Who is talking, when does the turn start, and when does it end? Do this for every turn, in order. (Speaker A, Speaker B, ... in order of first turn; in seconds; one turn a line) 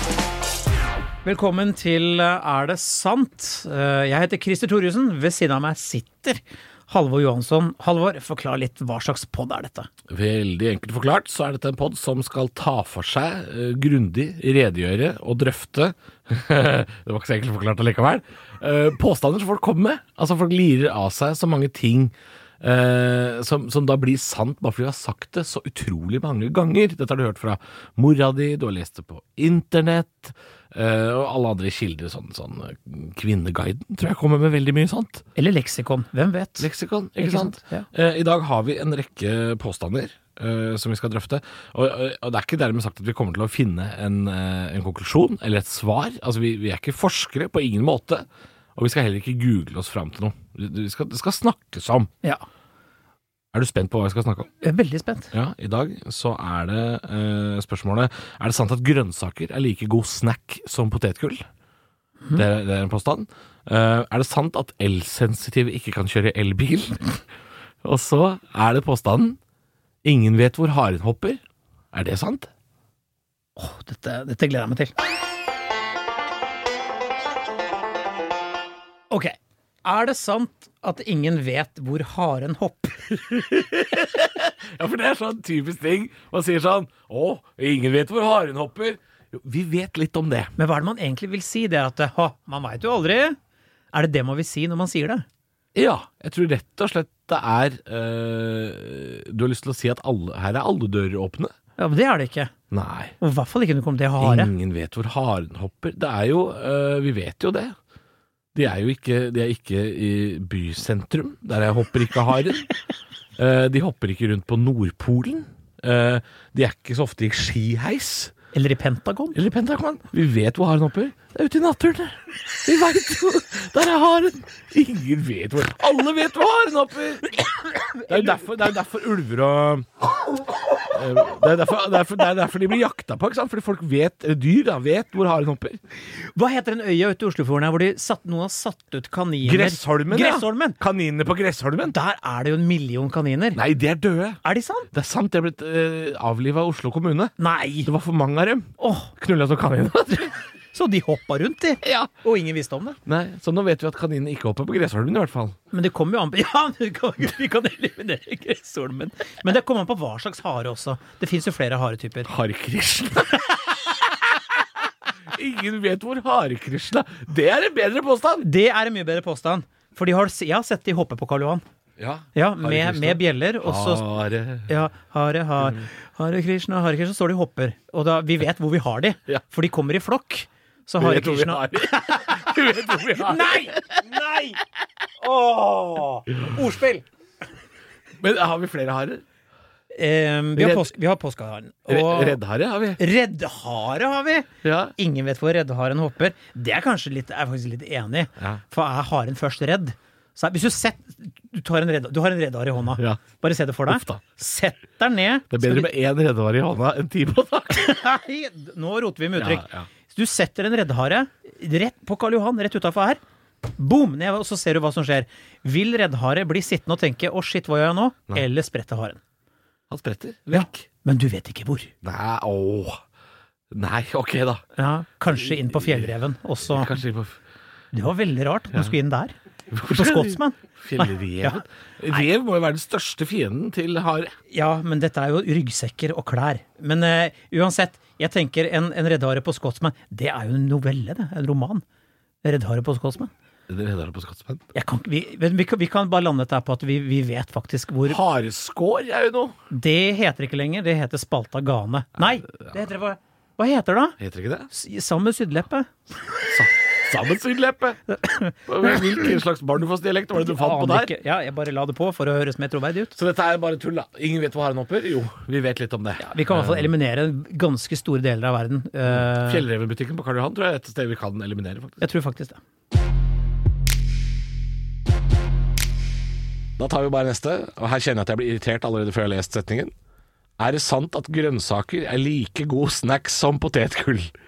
Speaker A: 1.2-9.9
Speaker B: 10.1-35.2
Speaker A: 35.4-37.9
Speaker B: 36.6-48.2
Speaker B: 48.8-52.1
Speaker B: 53.5-54.5
Speaker A: 54.6-55.3
Speaker B: 55.3-61.4
Speaker B: 62.3-67.1
Speaker B: 67.8-69.4
Speaker B: 70.0-71.4
Speaker B: 71.9-72.5
Speaker A: 73.6-75.0
Speaker A: 79.1-83.2
Speaker B: 83.1-90.5
Speaker A: 90.6-93.4
Speaker A: 93.9-95.3
Speaker B: 95.7-101.5
Speaker A: 101.8-102.5
Speaker B: 102.7-103.2
Speaker A: 103.2-104.5
Speaker B: 104.2-107.8
Speaker B: 108.5-112.7
Speaker B: 113.4-118.3
Speaker A: 118.5-119.4
Speaker B: 119.3-127.5
Speaker B: 128.1-129.9
Speaker B: 130.9-135.8
Speaker A: 136.4-140.8
Speaker B: 139.4-141.9
Speaker A: 141.9-143.6
Speaker B: 143.6-150.3
Speaker A: 144.4-144.9
Speaker A: 147.4-147.9
Speaker A: 148.8-149.1
Speaker A: 150.7-153.0
Speaker B: 151.8-152.1
Speaker B: 153.1-155.6
Speaker A: 155.7-162.3
Speaker B: 162.2-164.6
Speaker B: 165.3-168.5
Speaker A: 168.4-171.6
Speaker B: 172.0-174.7
Speaker A: 172.3-174.0
Speaker A: 174.7-184.6
Speaker B: 175.6-175.9
Speaker B: 181.0-184.0
Speaker A: 185.2-187.1
Speaker B: 188.2-189.2
Speaker A: 189.9-192.4
Speaker B: 190.6-190.9
Speaker B: 191.9-193.0
Speaker A: 193.0-205.9
Speaker B: 194.6-194.9
Speaker B: 203.9-204.2
Speaker B: 205.5-208.0
Speaker A: 207.7-213.2
Speaker B: 209.4-209.9
Speaker A: 213.8-219.2
Speaker B: 219.9-220.9
Speaker A: 220.5-221.9
Speaker B: 222.0-223.0
Speaker B: 223.7-224.6
Speaker A: 224.8-227.0
Speaker B: 225.6-226.0
Speaker B: 226.7-227.4
Speaker A: 227.9-231.6
Speaker B: 229.7-234.3
Speaker A: 234.5-241.8
Speaker A: 242.4-243.3
Speaker B: 243.7-244.7
Speaker A: 244.7-248.2
Speaker B: 248.1-249.6
Speaker A: 249.7-254.2
Speaker B: 254.2-254.7
Speaker A: 254.7-255.9
Speaker B: 256.5-258.0
Speaker A: 258.1-259.3
Speaker B: 258.7-261.1
Speaker A: 260.4-263.1
Speaker B: 263.1-266.9
Speaker A: 266.2-269.6
Speaker B: 269.1-272.0
Speaker A: 272.0-272.6
Speaker B: 276.8-279.9
Speaker B: 280.6-284.3